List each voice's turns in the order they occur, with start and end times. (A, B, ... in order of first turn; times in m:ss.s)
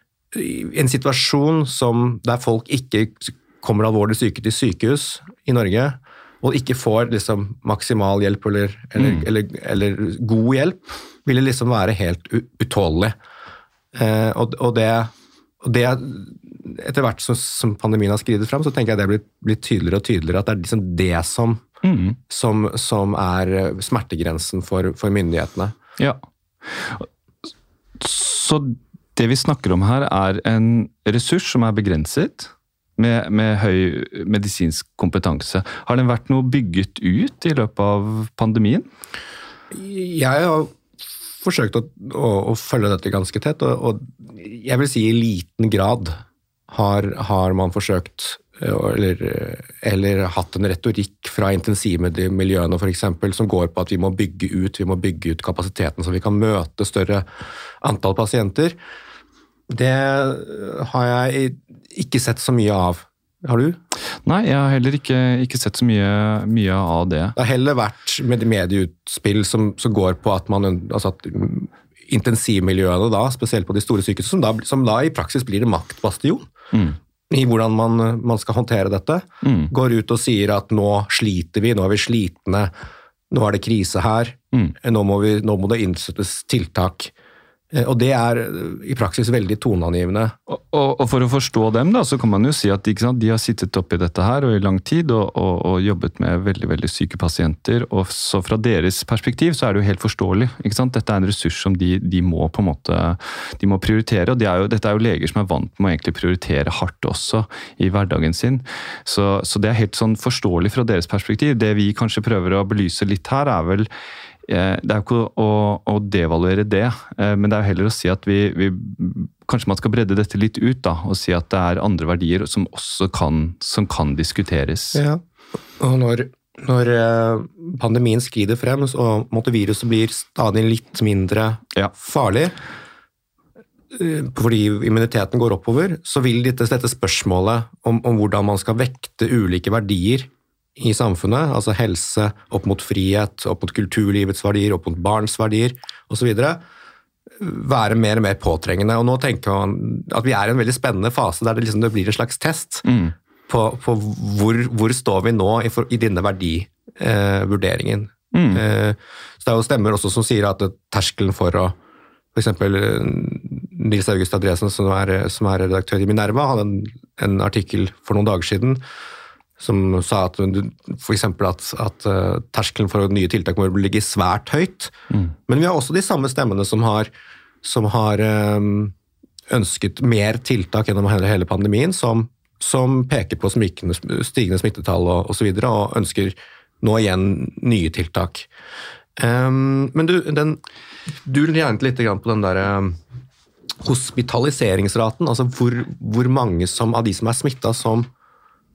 0:00.3-0:13.2 A
0:09.0-0:09.3 B
0:13.9-0:21.6 A
0:21.8-0:22.2 B
0:22.3-0:25.8 A
0:26.7-0:27.1 B
0:28.0-0:38.9 B
0:39.7-0:40.8 A
0:41.4-0:57.3 A
0:57.8-0:58.8 A
0:59.7-1:03.8 A
1:04.3-1:07.4 B
1:07.4-1:16.5 A
1:16.7-1:17.0 B
1:17.3-1:22.7 A
1:19.4-1:19.7 B
1:23.3-1:27.1 A
1:27.7-1:30.4 A
1:30.5-1:53.9 B
1:54.5-2:05.0 B
2:05.0-2:05.2 A
2:05.8-2:12.5 A
2:13.9-2:26.6 A
2:27.4-2:32.8 A
2:32.8-2:33.2 B
2:33.5-2:41.8 A
2:38.3-2:38.6 B
2:42.3-2:48.8 A
2:49.6-2:54.9 A
2:55.5-2:57.1 A
2:57.6-2:58.9 A
2:59.5-3:08.5 A
3:09.2-3:10.6 A
3:11.2-3:13.0 A
3:13.8-3:18.1 A